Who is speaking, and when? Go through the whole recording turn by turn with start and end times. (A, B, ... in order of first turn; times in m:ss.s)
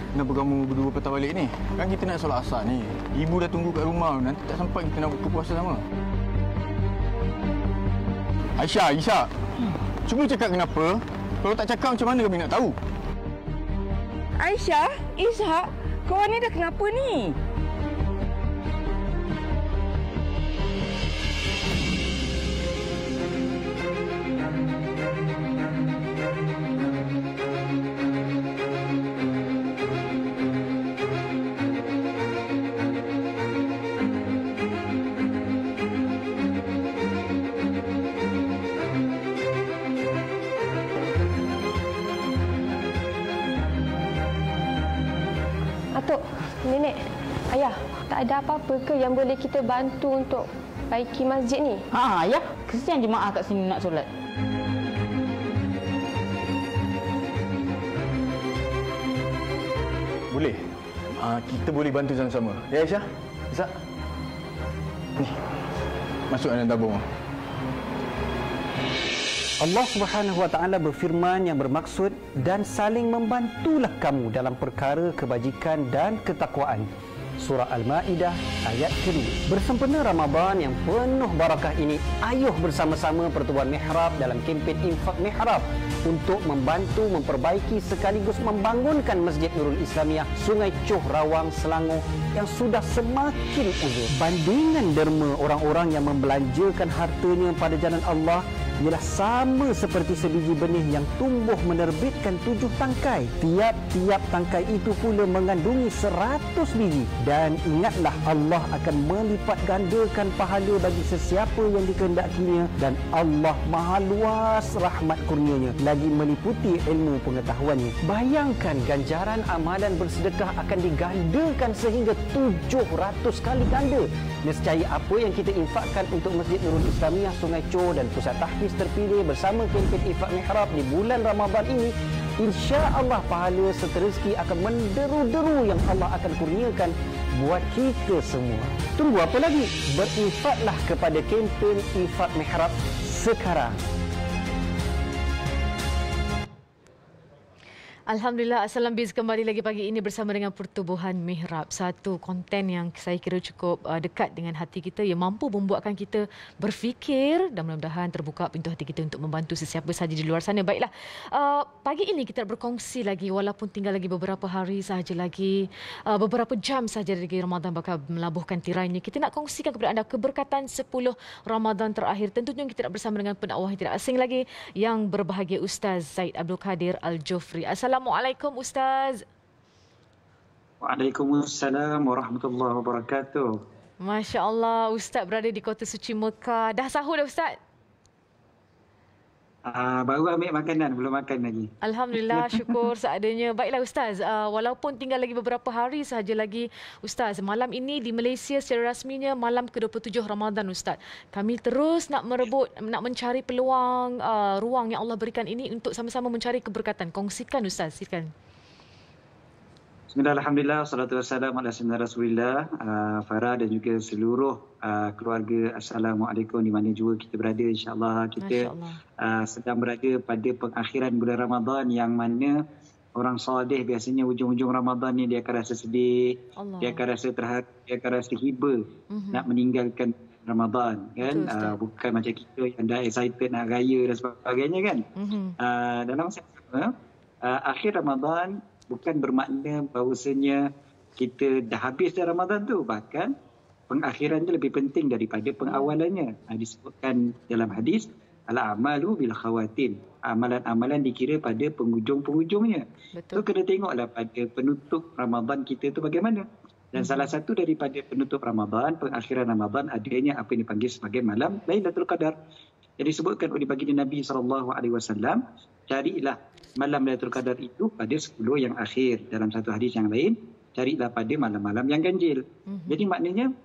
0:00.1-0:05.8 A
0:08.6-0:09.3 A
0:10.1-0:12.8 A
0:14.4-0:17.4 B
0:45.9-0:51.9 C
0:51.9-0:54.1 D
1:00.3-1:00.6 A
1:01.2-1:03.7 A
1:06.3-1:07.0 A
1:09.6-2:23.8 E
2:28.1-2:59.2 F
3:00.8-3:03.6 G
3:04.0-3:07.6 F
3:09.7-3:11.7 G
3:11.8-3:28.3 F
3:12.3-3:12.9 G
3:30.1-3:38.7 G
3:38.4-3:39.0 F
3:39.2-3:42.6 G
3:43.2-3:55.0 G
3:46.6-3:47.0 F
3:49.1-3:49.5 F
3:51.2-3:51.8 F
3:55.2-3:55.6 F
3:55.6-3:56.9 G
3:57.4-4:00.6 G
4:01.2-4:03.3 G
4:03.9-4:22.3 G
4:05.7-4:06.0 F
4:13.1-4:13.5 F
4:17.0-4:17.3 F
4:23.0-4:33.5 G
4:32.7-4:33.1 F